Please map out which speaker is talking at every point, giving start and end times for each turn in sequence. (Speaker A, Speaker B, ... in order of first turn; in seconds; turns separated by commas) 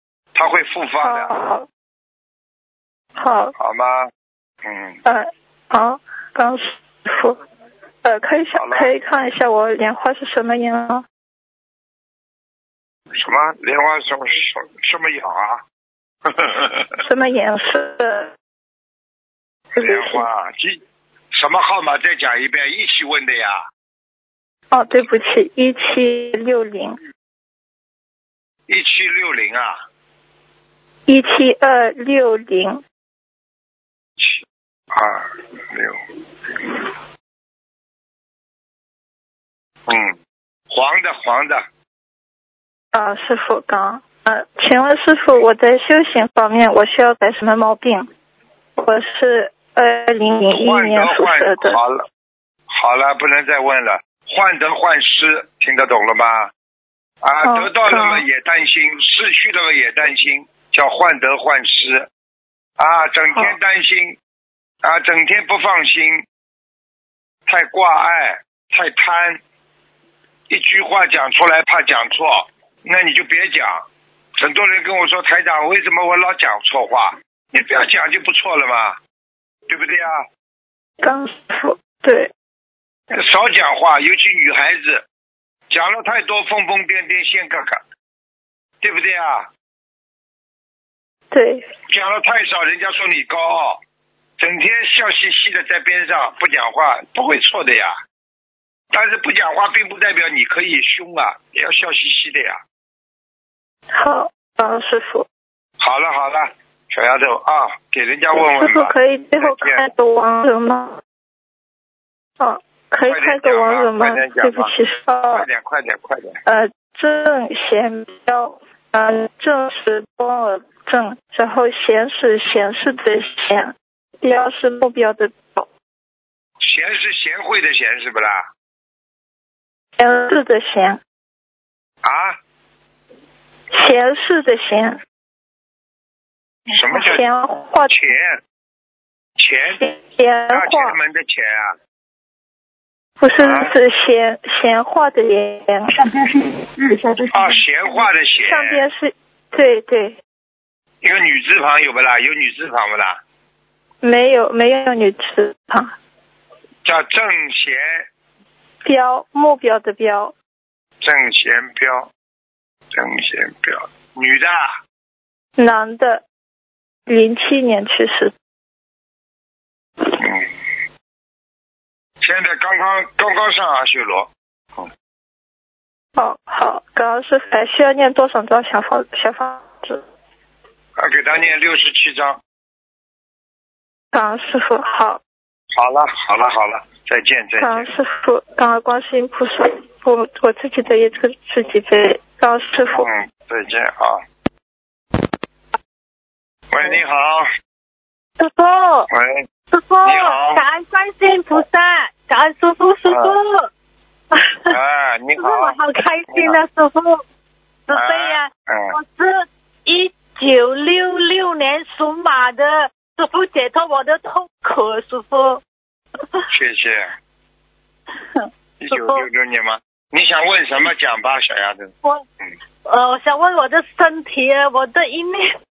Speaker A: 0.3-1.3, Speaker B: 1.0-1.7, Speaker B: 3.1-3.5, Speaker A: 3.6-4.1, Speaker A: 4.6-5.0, Speaker B: 5.0-7.4, Speaker B: 8.0-11.1, Speaker A: 8.5-8.9, Speaker A: 13.1-15.6, Speaker A: 16.2-17.0, Speaker B: 17.0-18.3, Speaker B: 19.8-20.2, Speaker A: 19.8-20.8, Speaker A: 21.3-23.6, Speaker B: 24.7-27.0, Speaker A: 28.7-29.8, Speaker B: 31.1-32.8, Speaker A: 34.2-36.0, Speaker A: 36.5-36.8, Speaker A: 39.9-40.1, Speaker A: 40.7-41.6, Speaker B: 42.9-48.1, Speaker B: 48.8-51.8, Speaker A: 50.5-52.0, Speaker A: 52.7-56.5, Speaker A: 57.2-62.1, Speaker B: 57.4-58.2, Speaker A: 62.8-64.2, Speaker A: 64.8-66.2, Speaker A: 67.5-69.4, Speaker A: 70.5-73.8, Speaker A: 74.4-79.0, Speaker A: 79.7-80.2, Speaker B: 81.0-82.3, Speaker A: 83.1-85.0, Speaker A: 85.7-87.8, Speaker A: 88.8-89.5, Speaker B: 91.3-91.7, Speaker A: 91.9-93.8, Speaker A: 94.4-98.0, Speaker A: 98.9-102.6, Speaker B: 103.9-105.2, Speaker A: 105.8-109.9, Speaker B: 108.3-111.0, Speaker B: 112.4-115.5, Speaker A: 113.1-114.8, Speaker A: 115.3-116.4, Speaker B: 116.5-125.7, Speaker A: 126.6-128.5, Speaker B: 130.0-131.0, Speaker A: 132.0-132.4, Speaker B: 133.7-135.0, Speaker A: 136.7-137.2, Speaker B: 136.9-138.1, Speaker A: 137.9-138.4, Speaker A: 139.4-139.8, Speaker B: 139.8-141.0, Speaker A: 140.5-141.8, Speaker B: 143.2-145.9, Speaker A: 143.4-143.7, Speaker C: 145.9-148.0, Speaker A: 147.3-148.8, Speaker B: 148.5-150.2, Speaker A: 151.0-153.2, Speaker B: 154.0-155.9, Speaker A: 156.8-158.1, Speaker B: 158.8-160.3, Speaker A: 161.0-162.1, Speaker A: 162.9-164.8, Speaker B: 165.6-166.2, Speaker B: 167.1-168.3, Speaker A: 170.2-170.5, Speaker A: 172.2-174.9, Speaker B: 176.2-180.0, Speaker A: 181.0-182.4, Speaker B: 184.1-185.2, Speaker A: 185.7-187.9, Speaker B: 187.6-193.1, Speaker A: 192.9-194.2, Speaker A: 196.7-197.5, Speaker D: 198.4-199.1, Speaker A: 199.1-199.5, Speaker D: 199.7-203.7, Speaker A: 200.0-200.6, Speaker A: 203.1-203.4, Speaker D: 204.3-204.8, Speaker A: 204.7-205.8, Speaker D: 205.4-207.2, Speaker A: 206.3-206.6, Speaker D: 207.9-215.6, Speaker A: 207.9-208.9, Speaker D: 216.2-216.5, Speaker A: 216.5-217.1, Speaker D: 218.3-219.2, Speaker A: 218.8-221.9, Speaker D: 222.8-225.5